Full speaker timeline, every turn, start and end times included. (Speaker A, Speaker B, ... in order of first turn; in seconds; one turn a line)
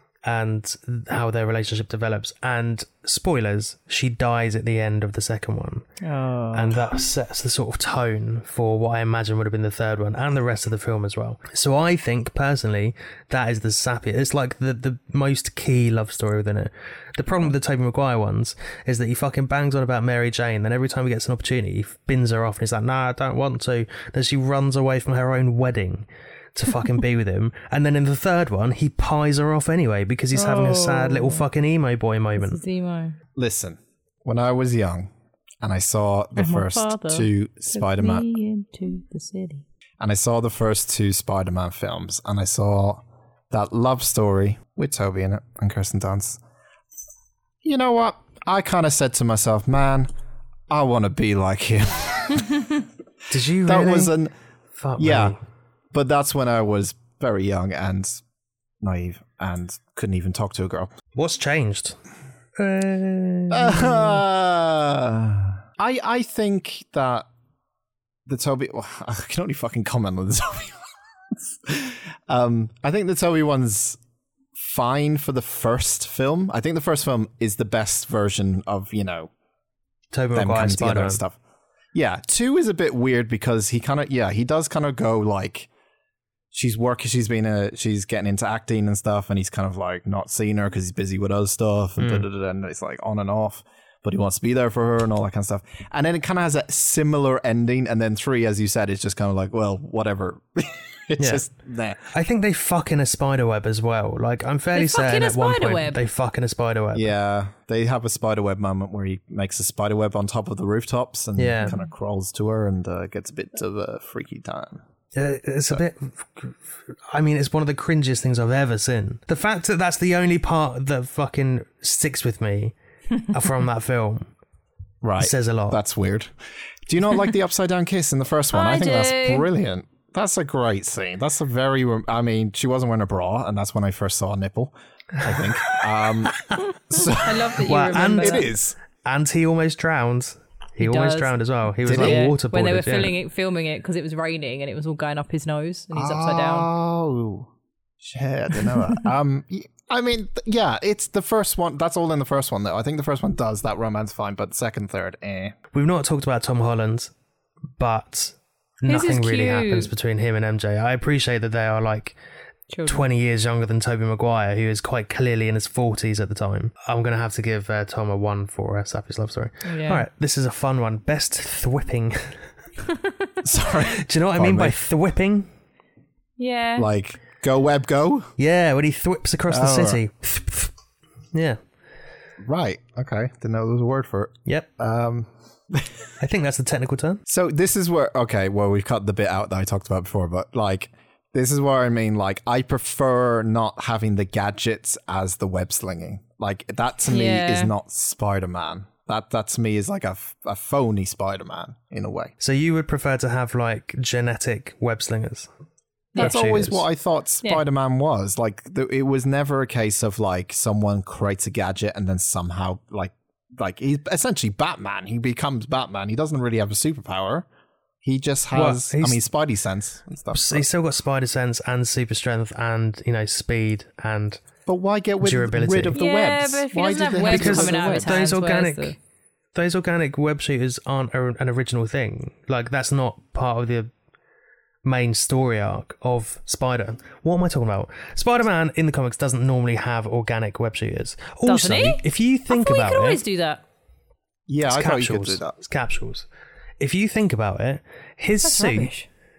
Speaker A: 0.2-5.8
Speaker B: 6.0-6.8
Speaker A: 6.5-32.6
Speaker B: 30.3-31.4
Speaker B: 32.4-33.2
Speaker C: 33.4-35.1
Speaker C: 35.6-38.2
Speaker B: 36.4-39.6
Speaker C: 40.0-46.4
Speaker C: 47.6-50.1
Speaker C: 50.7-52.7
Speaker A: 53.3-54.1
Speaker C: 53.7-54.3
Speaker A: 54.8-55.4
Speaker C: 55.0-55.4
Speaker C: 55.9-58.2
Speaker C: 58.8-60.9
Speaker A: 61.1-62.0
Speaker A: 62.6-64.2
Speaker C: 63.5-67.3
Speaker C: 68.3-74.0
Speaker C: 74.6-79.3
Speaker A: 80.1-81.2
Speaker C: 80.3-81.4
Speaker C: 81.9-85.7
Speaker C: 86.5-102.1
Speaker A: 92.0-92.3
Speaker A: 101.2-101.4
Speaker A: 102.1-107.1
Speaker B: 104.8-106.0
Speaker C: 107.0-114.8
Speaker A: 111.4-111.8
Speaker A: 115.2-122.8
Speaker A: 123.3-124.3
Speaker C: 125.0-126.3
Speaker A: 125.2-125.8
Speaker C: 126.9-137.6
Speaker B: 128.5-129.5
Speaker B: 137.1-138.5
Speaker A: 137.6-138.5
Speaker C: 138.2-138.8
Speaker A: 139.0-143.2
Speaker B: 140.8-141.3
Speaker C: 141.8-142.3
Speaker B: 141.9-146.7
Speaker C: 145.9-155.6
Speaker A: 155.7-157.1
Speaker A: 157.8-162.2
Speaker B: 158.9-159.9
Speaker B: 162.7-163.1
Speaker A: 162.9-172.4
Speaker B: 169.7-170.0
Speaker C: 173.4-174.8
Speaker A: 174.0-175.5
Speaker B: 176.4-176.9
Speaker C: 176.8-178.3
Speaker A: 178.4-180.7
Speaker C: 179.5-180.0
Speaker A: 181.3-181.6
Speaker C: 182.4-185.9
Speaker A: 186.2-187.2
Speaker C: 187.3-202.3
Speaker B: 197.1-197.7
Speaker A: 202.4-205.5
Speaker A: 206.2-206.8
Speaker C: 206.2-217.5
Speaker C: 218.0-220.7
Speaker A: 218.5-219.2
Speaker A: 220.3-224.4
Speaker C: 224.7-228.2
Speaker A: 225.2-226.0
Speaker B: 225.9-229.0
Speaker A: 227.2-228.9
Speaker A: 229.6-233.9
Speaker A: 234.8-243.2
Speaker B: 241.5-243.6
Speaker C: 244.5-245.6
Speaker A: 244.7-246.3
Speaker A: 246.8-248.9
Speaker B: 248.4-249.1